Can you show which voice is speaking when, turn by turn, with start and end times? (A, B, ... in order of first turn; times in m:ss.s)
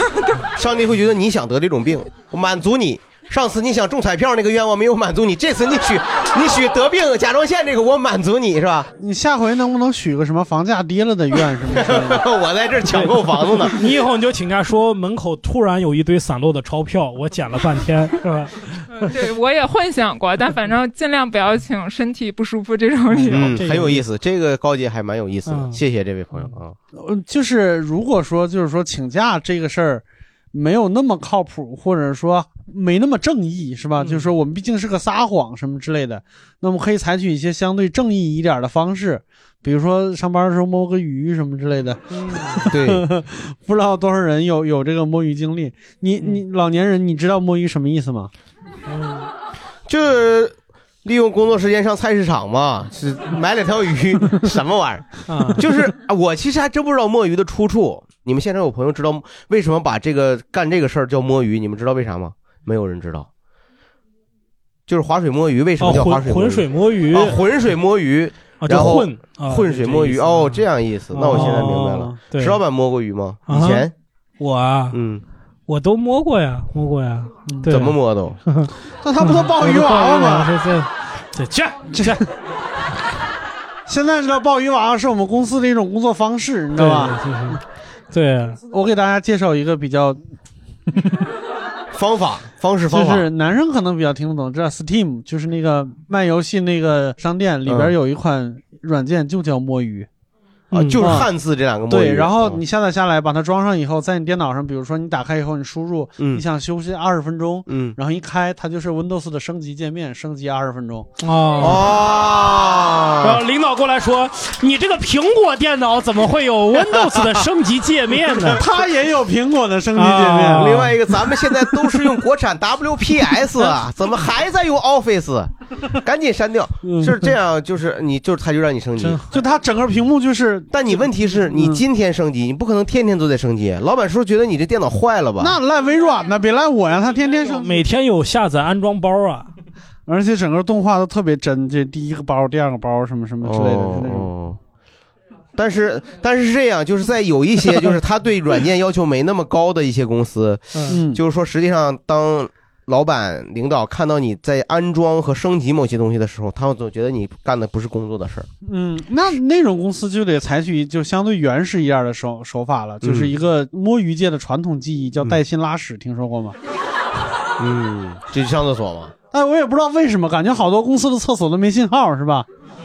0:00.5-0:08.9 A
0:09.0-0:12.3 B
0:11.7-0:13.7 A
0:13.6-0:19.1 C
0:19.0-0:23.6 D
0:23.1-0:24.0 C
0:23.3-0:26.8 A
0:25.5-0:25.8 C
0:26.9-0:48.3 B
0:42.2-0:42.5 C
0:42.7-0:43.0 A
0:48.9-0:49.3 C
0:49.9-1:03.3 A
0:55.3-0:55.6 C
1:04.9-1:13.9 A
1:05.8-1:07.4 C
1:08.6-1:10.6 C
1:11.1-1:12.2 B
1:11.2-1:12.6 C
1:13.5-1:13.9 C
1:14.4-1:15.0 C
1:14.9-1:15.2 A
1:15.7-1:18.0 C
1:17.5-1:17.8 B
1:17.6-1:18.4 A
1:18.5-1:22.2 C
1:19.0-1:20.5 B
1:21.9-1:22.2 B
1:23.9-1:27.6 B
1:26.7-1:28.6 C
1:28.6-1:30.2 B
1:31.9-1:33.2 A
1:32.9-1:40.1 B
1:37.6-1:37.9 A
1:40.7-1:42.6 A
1:40.7-1:41.0 C
1:41.0-1:41.3 B
1:41.9-1:51.1 B
1:46.2-1:46.4 A
1:47.7-1:48.0 A
1:51.2-1:51.9 C
1:51.6-1:53.4 A
1:53.2-1:58.6 C
1:56.7-1:57.3 A
1:58.4-1:58.6 A
1:58.6-2:00.9 B
1:59.9-2:00.9 C
2:00.5-2:09.2 A
2:06.8-2:07.3 B
2:09.3-2:11.8 B
2:10.7-2:15.6 A
2:15.4-2:17.8 B
2:17.6-2:19.5 C
2:20.1-2:24.3 B
2:23.4-2:24.6 A
2:25.6-2:38.5 A
2:30.9-2:31.2 B
2:38.6-2:46.6 B
2:43.0-2:43.3 A
2:47.6-2:49.1 A
2:49.3-2:52.5 B